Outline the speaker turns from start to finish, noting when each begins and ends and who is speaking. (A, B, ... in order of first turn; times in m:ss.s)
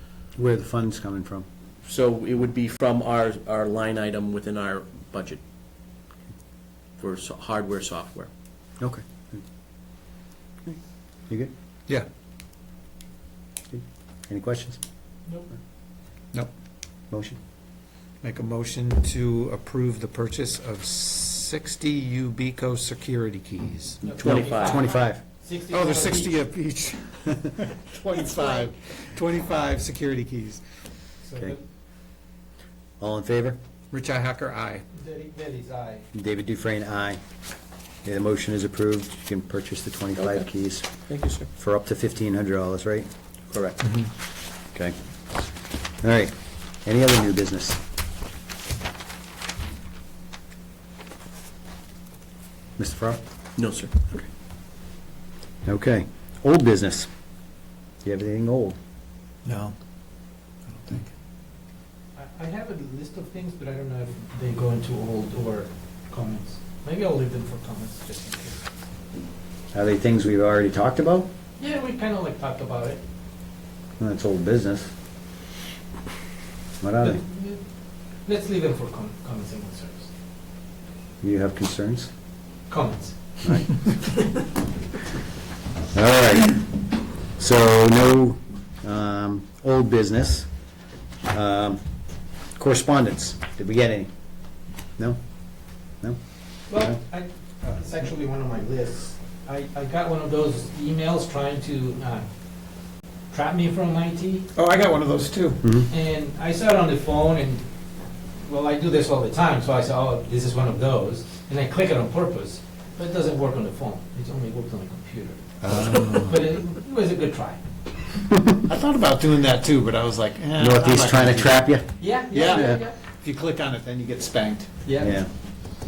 0:00.4-0:01.5 A
0:01.8-0:05.4 B
0:07.0-0:08.3 B
0:08.8-0:09.4 A
0:10.6-0:11.5 A
0:13.7-0:14.8 A
0:17.1-0:17.4 A
0:18.2-0:24.0 C
0:24.0-0:26.3 D
0:24.2-0:25.2 A
0:24.2-0:24.8 B
0:25.7-0:30.6 C
0:28.2-0:28.5 D
0:31.3-0:31.6 D
0:33.0-0:33.6 A
0:33.9-0:34.8 C
0:34.9-0:36.0 D
0:36.1-0:37.2 A
0:38.0-0:40.9 A
0:40.2-0:40.5 B
0:41.1-0:41.5 B
0:41.6-0:43.8 A
0:46.0-0:47.8 A
0:52.8-0:53.2 A
0:53.6-0:53.9 B
0:55.6-0:57.1 A
0:58.0-0:58.8 A
0:59.4-0:59.8 C
1:00.7-1:01.1 C
1:02.2-1:08.6 D
1:09.7-1:11.3 A
1:11.6-1:13.0 D
1:14.0-1:14.9 A
1:16.8-1:17.2 A
1:17.0-1:17.6 D
1:18.3-1:20.1 D
1:21.2-1:22.1 A
1:22.7-1:23.1 D
1:23.4-1:24.2 A
1:25.9-1:26.8 A
1:27.4-1:30.5 A
1:31.3-1:31.8 A
1:32.6-1:34.1 A
1:36.7-1:42.3 D
1:36.7-1:37.0 A
1:43.3-1:44.5 D
1:44.6-1:45.7 C
1:45.6-1:45.9 A
1:45.9-1:47.6 D
1:48.4-1:57.6 D
1:55.6-1:56.4 C
1:58.7-2:01.7 C
2:00.6-2:01.9 A
2:02.0-2:03.0 D
2:02.3-2:04.8 C
2:04.8-2:05.2 D
2:05.0-2:05.3 A